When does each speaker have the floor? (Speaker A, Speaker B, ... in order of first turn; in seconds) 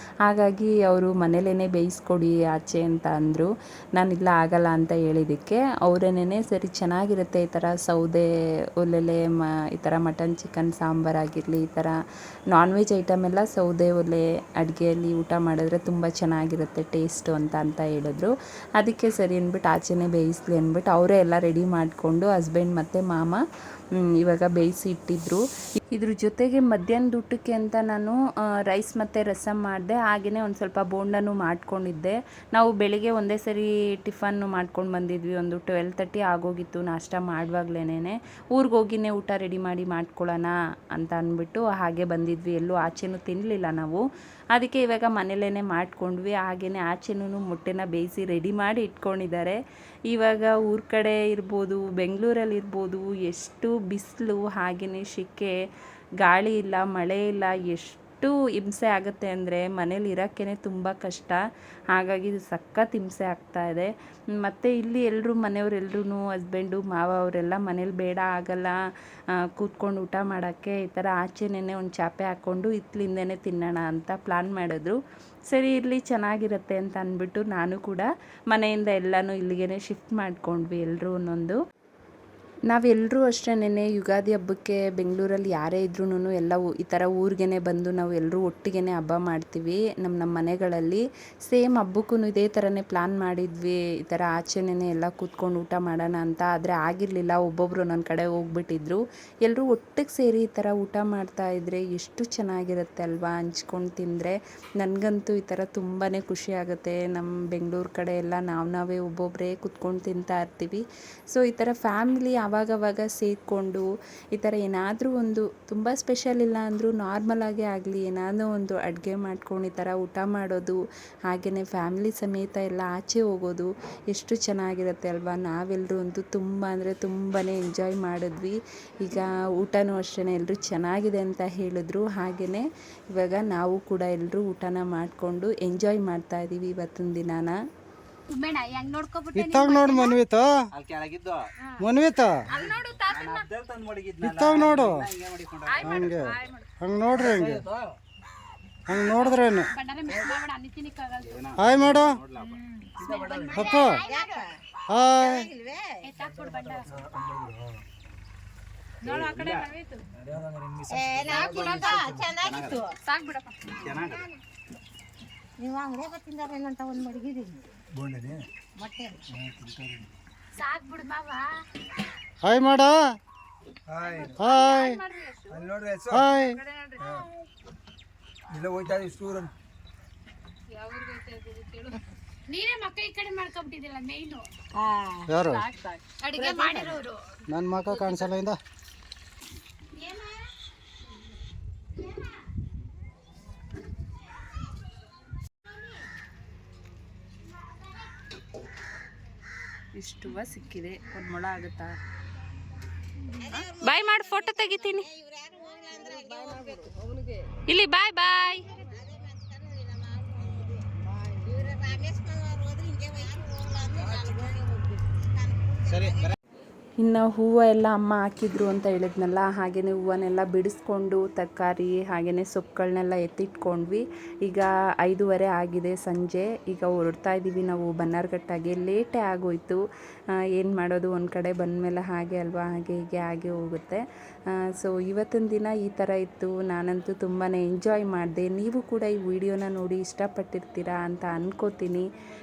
Speaker A: 0.2-8.2, 8.8-11.9, 12.5-23.4, 24.2-25.4, 25.9-28.2, 28.7-44.0, 44.5-49.6, 50.1-55.5, 56.2-61.4, 61.9-63.9, 64.4-68.8, 69.4-75.0, 75.5-81.6, 82.7-137.5, 200.0-202.0, 203.5-205.1, 207.7-208.7, 217.0-229.8, 230.5-234.0, 234.7-242.0
Speaker B: 138.3-140.2, 142.5-143.5, 145.7-146.7, 148.9-151.5, 152.8-154.4, 156.0-156.9, 159.0-160.0, 161.3-162.0, 163.0-163.7, 170.6-171.6, 174.1-175.6, 176.7-177.0, 180.7-181.9, 182.5-184.4, 185.4-187.1, 187.9-188.3, 190.0-190.3
Speaker C: 139.3-140.5, 141.8-142.4, 144.2-145.0, 145.8-147.6, 148.9-149.7, 151.6-152.2, 153.5-154.0, 154.9-155.5, 172.4-173.2, 174.4-175.0, 176.1-176.6, 185.3-185.7, 187.5-188.6
Speaker D: 140.7-141.4, 142.5-146.3, 147.1-147.9, 151.2-153.6, 159.0-159.7, 160.9-162.8, 163.8-164.3, 215.9-216.3
Speaker E: 154.1-155.9, 160.9-162.9, 165.6-167.5, 168.8-169.2, 186.4-186.9, 203.4-206.9, 208.8-210.8, 211.4-216.3
Speaker F: 156.9-157.8, 167.9-168.4, 169.3-170.1, 173.9-174.5, 175.5-176.3, 177.0-177.3, 178.5-179.5